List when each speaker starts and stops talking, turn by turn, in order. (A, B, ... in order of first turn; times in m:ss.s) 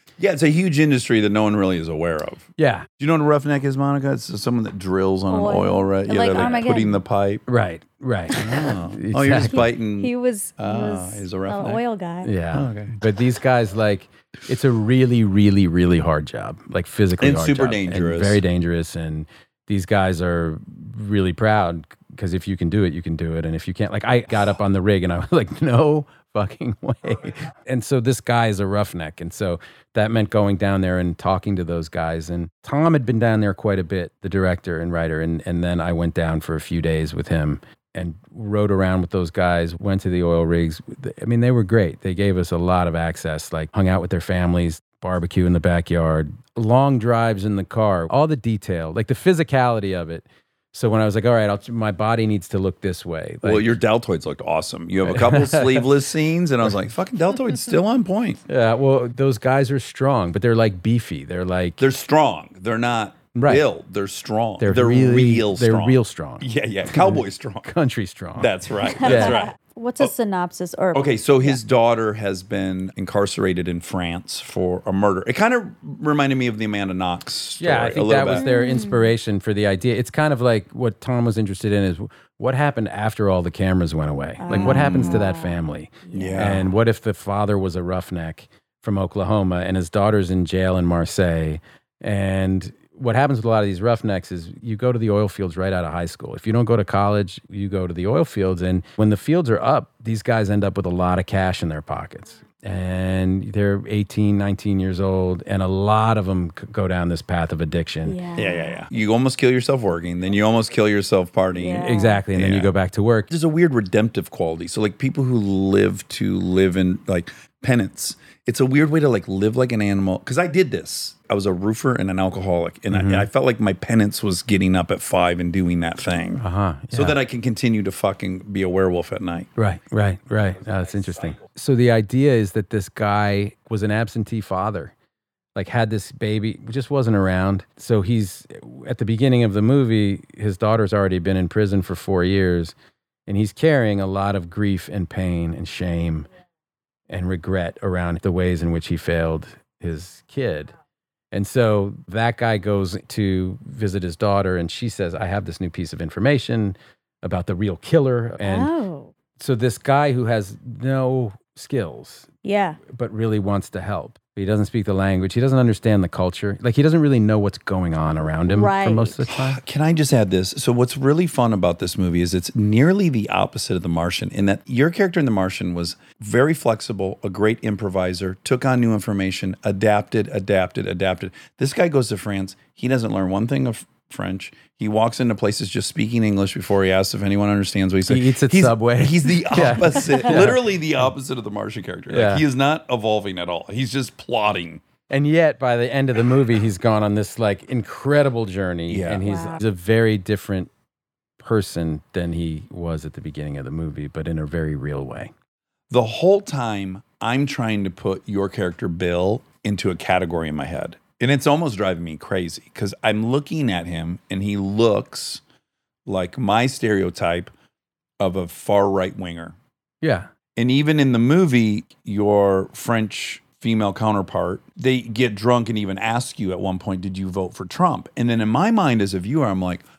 0:00.2-0:02.5 A
0:02.6-0:02.9 B
0:03.0-0:07.4 A
0:05.3-0:07.0 C
0:07.5-0:09.7 B
0:08.3-0:11.8 A
0:08.4-0:08.6 C
0:09.5-0:12.3 C
0:12.2-0:53.8 B
0:12.5-0:13.0 A
0:17.2-0:18.4 A
0:53.4-0:58.4 A
0:55.1-0:55.9 B
0:58.5-1:01.8 B
1:01.8-1:07.7 A
1:03.4-1:03.7 B
1:04.6-1:09.4 B
1:08.4-1:10.1 A
1:08.9-1:11.6 C
1:10.9-1:18.5 A
1:17.6-1:48.2 B
1:18.4-1:19.1 C
1:24.4-1:26.5 C
1:24.5-1:25.2 A
1:26.1-1:26.7 A
1:48.1-1:48.8 C
1:48.4-1:52.7 A
1:51.6-1:52.2 C
1:51.8-1:53.3 B
1:53.3-2:09.5 A
2:02.9-2:03.3 B
2:06.4-2:07.2 B
2:09.6-2:14.9 B
2:15.6-2:22.7 B
2:23.3-2:26.3 B
2:27.1-2:30.7 B
2:31.3-2:38.7 B
2:38.4-2:39.1 C
2:39.4-2:42.3 B
2:42.4-2:42.8 C
2:42.9-2:49.6 B
2:48.5-2:49.2 C
2:49.3-3:14.8 A
3:08.1-3:10.7 B
3:12.1-3:12.4 B
3:15.1-3:20.7 B
3:18.9-3:19.2 A
3:19.2-3:19.6 C
3:21.4-3:25.3 B
3:25.9-3:35.4 A
3:36.1-3:37.5 A
3:38.2-3:39.6 A
3:40.0-3:40.3 B
3:40.6-3:49.8 A